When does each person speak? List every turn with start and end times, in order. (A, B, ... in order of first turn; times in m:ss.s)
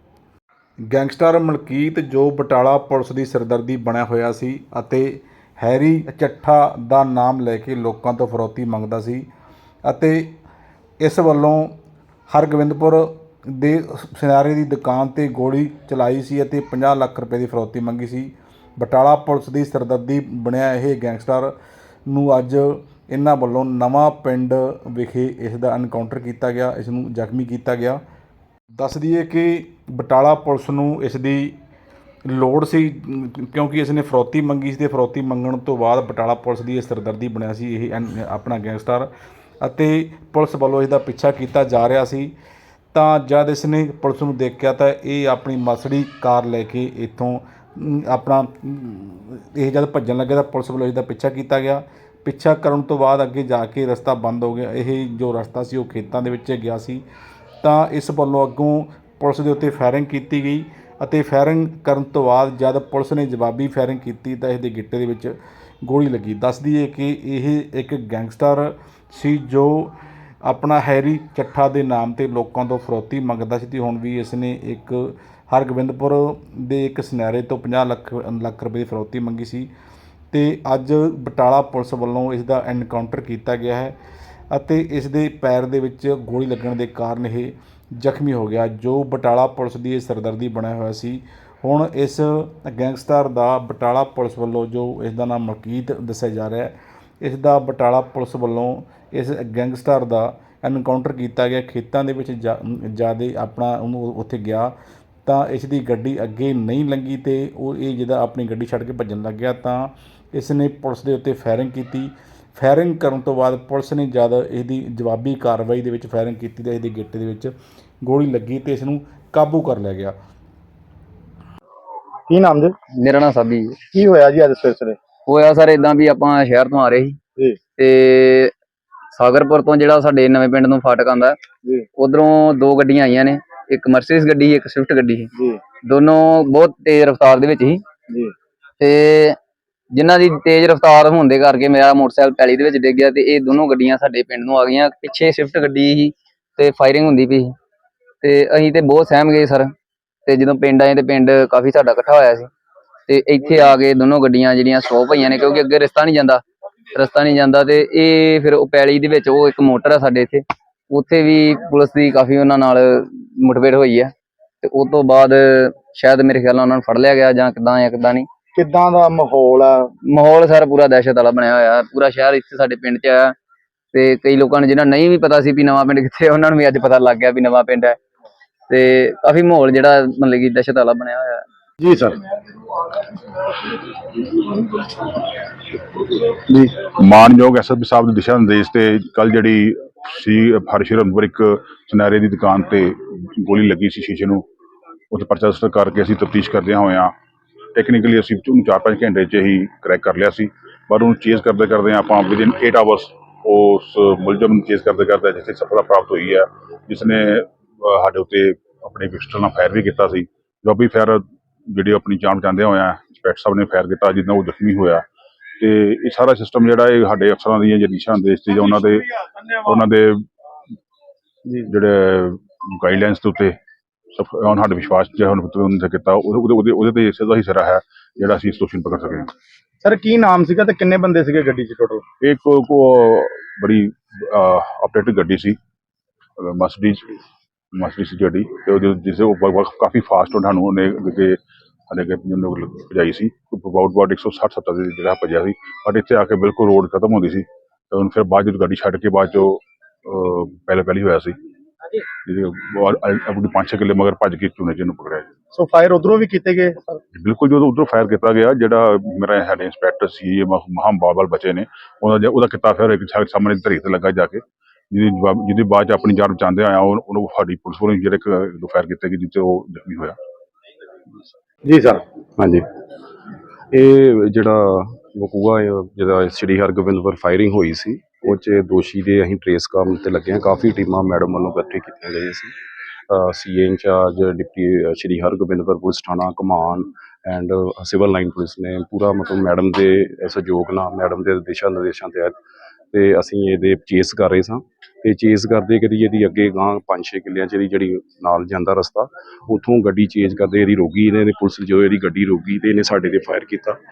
0:00.9-0:09.2 A
0:09.9-0:10.3 A
0:11.0-0:11.7 A
0:12.3-0:21.5 A
0:22.1-0:28.0 A
0:28.8-0:31.6 A
0:32.3-0:39.1 A
0:39.6-0:42.3 A
0:42.9-0:57.0 A
0:57.6-1:19.7 A
1:20.3-1:24.0 A
1:24.5-1:44.7 A
1:45.2-2:00.2 A
2:02.3-2:02.7 B
2:03.0-2:03.8 C
2:03.9-2:05.0 B
2:05.3-2:07.2 C
2:07.8-2:08.5 C
2:09.1-2:11.4 C
2:12.0-2:15.3 C
2:15.9-2:17.8 C
2:18.8-2:19.4 C
2:19.9-2:27.5 C
2:28.2-2:29.7 C
2:30.3-2:32.5 C
2:33.1-2:36.4 C
2:37.0-2:48.3 C
2:48.6-2:49.9 B
2:50.1-2:53.4 C
2:53.9-2:58.0 C
2:58.7-3:01.4 C
3:01.8-3:02.2 B
3:02.8-3:05.2 B
3:06.0-3:06.8 B
3:06.8-3:14.4 D
3:15.1-3:17.1 D
3:17.8-3:35.1 D
3:35.6-3:40.3 D
3:41.7-3:43.6 D
3:44.2-3:49.3 D
3:49.8-3:52.0 B
3:52.2-3:55.6 D
3:56.4-3:57.2 D
3:57.7-4:01.4 D
4:01.9-4:11.4 D
4:12.3-4:15.3 D
4:15.5-4:17.0 B
4:17.2-4:30.2 D
4:31.7-4:32.0 B
4:32.4-4:32.7 E
4:33.7-4:42.5 E
4:43.1-4:52.4 E
4:52.9-5:03.8 E